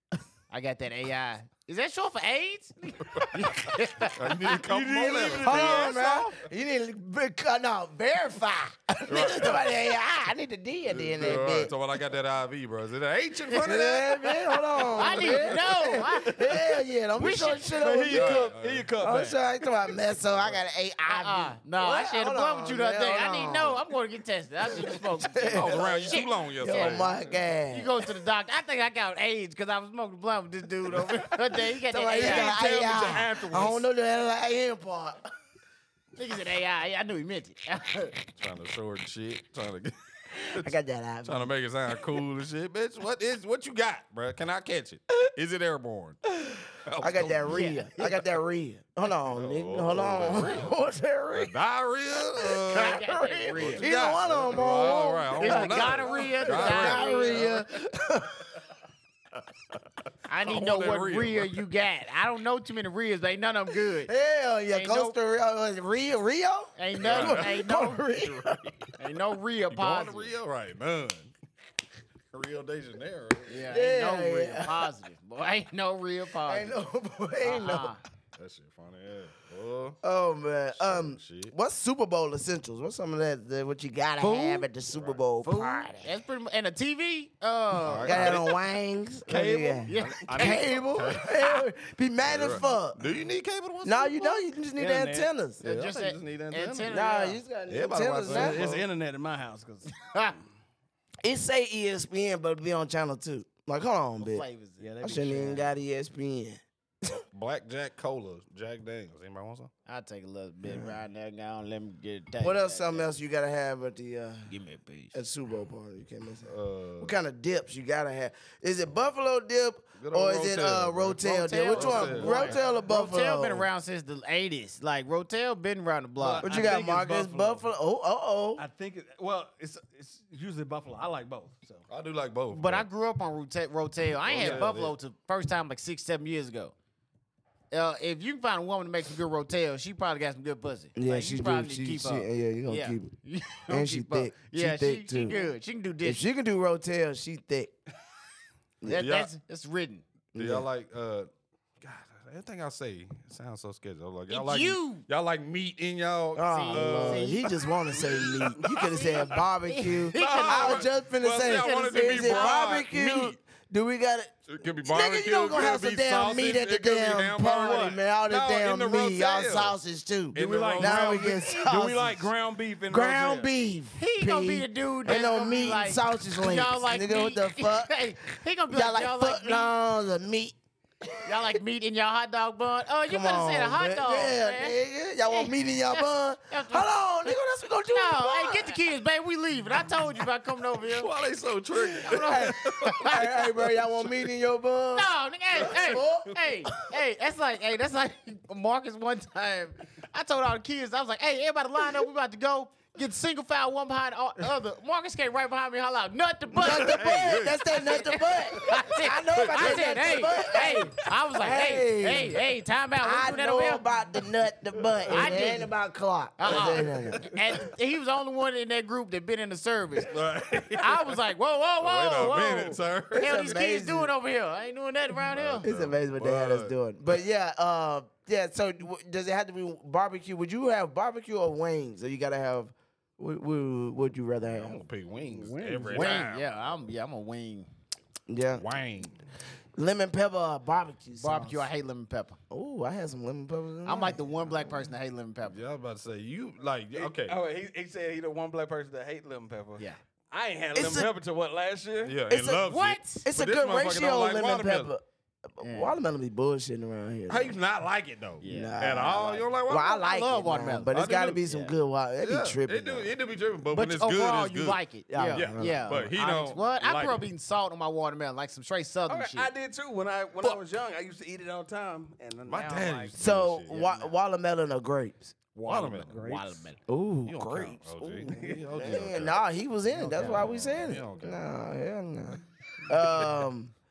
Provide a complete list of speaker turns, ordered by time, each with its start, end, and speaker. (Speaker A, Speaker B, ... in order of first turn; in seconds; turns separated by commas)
Speaker A: 0.5-4.3, Speaker B: 3.1-6.2, Speaker C: 4.5-6.2, Speaker D: 5.4-11.7, Speaker B: 9.1-9.7, Speaker B: 10.9-15.6, Speaker D: 13.6-18.5, Speaker A: 14.9-16.3, Speaker A: 17.2-17.7, Speaker C: 17.6-19.4, Speaker B: 18.1-18.9, Speaker D: 19.0-23.8, Speaker A: 21.1-27.0, Speaker D: 24.7-27.9, Speaker B: 25.5-27.2, Speaker A: 27.7-32.5, Speaker D: 31.9-35.3, Speaker C: 32.2-33.8, Speaker A: 36.1-38.2, Speaker B: 38.4-40.7, Speaker D: 40.5-41.5, Speaker B: 41.2-47.7, Speaker D: 46.5-51.5, Speaker A: 47.5-48.0, Speaker B: 49.3-50.7, Speaker B: 51.3-57.6, Speaker D: 52.4-58.5, Speaker A: 52.7-53.9, Speaker A: 55.4-57.5, Speaker A: 60.3-64.1, Speaker B: 60.4-61.6, Speaker D: 64.0-68.8, Speaker A: 64.7-65.2, Speaker A: 66.8-68.0, Speaker B: 67.0-68.9, Speaker A: 69.0-70.3, Speaker B: 69.7-71.3, Speaker B: 72.3-73.7, Speaker A: 73.5-76.8, Speaker D: 73.7-74.9, Speaker D: 76.4-77.9, Speaker A: 77.4-78.0, Speaker B: 78.3-80.0, Speaker D: 80.0-86.1, Speaker B: 80.7-81.5, Speaker A: 84.2-84.7, Speaker B: 84.9-85.2, Speaker A: 85.4-88.4, Speaker B: 87.8-88.5, Speaker D: 88.0-93.0, Speaker B: 89.3-91.4, Speaker C: 89.3-89.8, Speaker A: 89.8-90.6, Speaker B: 92.2-94.4, Speaker D: 93.8-95.6, Speaker C: 94.8-95.3, Speaker B: 95.6-96.9, Speaker A: 95.6-97.4, Speaker D: 96.9-98.7, Speaker B: 97.7-98.8, Speaker C: 98.3-100.4, Speaker A: 100.0-100.3, Speaker D: 101.2-104.4, Speaker A: 104.2-104.9, Speaker C: 104.8-105.7, Speaker D: 105.0-106.6, Speaker B: 107.1-109.7, Speaker A: 109.9-113.1, Speaker D: 110.6-111.0, Speaker D: 112.4-114.5, Speaker A: 114.5-115.2, Speaker D: 115.1-123.7, Speaker B: 116.4-117.1, Speaker B: 120.0-122.6, Speaker A: 121.2-126.5, Speaker C: 126.2-127.6, Speaker D: 126.4-128.6, Speaker C: 128.6-131.8, Speaker B: 131.9-132.9, Speaker A: 132.5-136.7, Speaker B: 134.2-134.9, Speaker A: 137.7-146.2, Speaker D: 140.9-143.1, Speaker D: 143.7-145.5, Speaker D: 146.0-147.7, Speaker D: 148.8-149.1, Speaker A: 148.8-150.0, Speaker B: 148.9-149.3, Speaker D: 150.3-150.7, Speaker B: 150.3-151.3, Speaker B: 151.8-157.4, Speaker A: 154.3-155.0, Speaker D: 156.3-172.3, Speaker A: 156.4-157.5, Speaker B: 158.0-159.4, Speaker A: 159.3-160.8, Speaker B: 160.1-163.4, Speaker A: 161.6-162.6, Speaker B: 164.5-169.8, Speaker B: 170.3-171.6, Speaker C: 170.3-173.5, Speaker D: 172.9-178.0, Speaker A: 173.9-179.7, Speaker D: 178.7-180.6, Speaker D: 181.1-181.5, Speaker A: 181.2-186.9, Speaker D: 183.1-188.8, Speaker A: 187.9-191.1, Speaker B: 190.8-194.2, Speaker A: 192.0-193.2, Speaker D: 192.0-196.3, Speaker A: 194.9-207.2, Speaker D: 206.5-212.4, Speaker B: 206.6-210.9, Speaker A: 207.7-213.8, Speaker D: 213.0-217.3, Speaker A: 215.1-215.7, Speaker A: 216.4-220.2, Speaker B: 216.5-217.4, Speaker B: 220.0-221.2, Speaker A: 220.8-225.7, Speaker B: 221.8-223.3, Speaker D: 223.1-224.1, Speaker B: 225.2-226.8, Speaker D: 225.6-234.8, Speaker B: 234.5-236.7, Speaker C: 235.3-236.2, Speaker A: 235.9-237.7, Speaker D: 238.3-238.6, Speaker B: 238.5-239.2, Speaker D: 239.8-241.7, Speaker A: 241.2-242.4, Speaker D: 242.5-244.8, Speaker A: 243.8-245.6, Speaker B: 245.4-247.4, Speaker C: 246.9-252.2, Speaker D: 250.7-251.1, Speaker B: 252.0-254.9, Speaker D: 252.3-257.6, Speaker A: 252.7-253.2, Speaker A: 255.6-255.9, Speaker B: 257.3-260.0, Speaker A: 258.4-260.9, Speaker D: 258.4-263.1, Speaker B: 260.9-261.4, Speaker A: 261.5-261.7, Speaker B: 262.2-264.8, Speaker A: 263.7-269.5, Speaker D: 265.1-266.1, Speaker B: 265.3-267.2, Speaker C: 269.1-273.1, Speaker B: 272.4-273.9, Speaker D: 273.2-275.3, Speaker B: 275.6-276.3, Speaker A: 275.6-276.8, Speaker C: 275.7-276.7, Speaker D: 276.9-278.2, Speaker B: 277.2-279.4, Speaker C: 278.3-279.0, Speaker D: 278.8-283.7, Speaker B: 280.1-281.4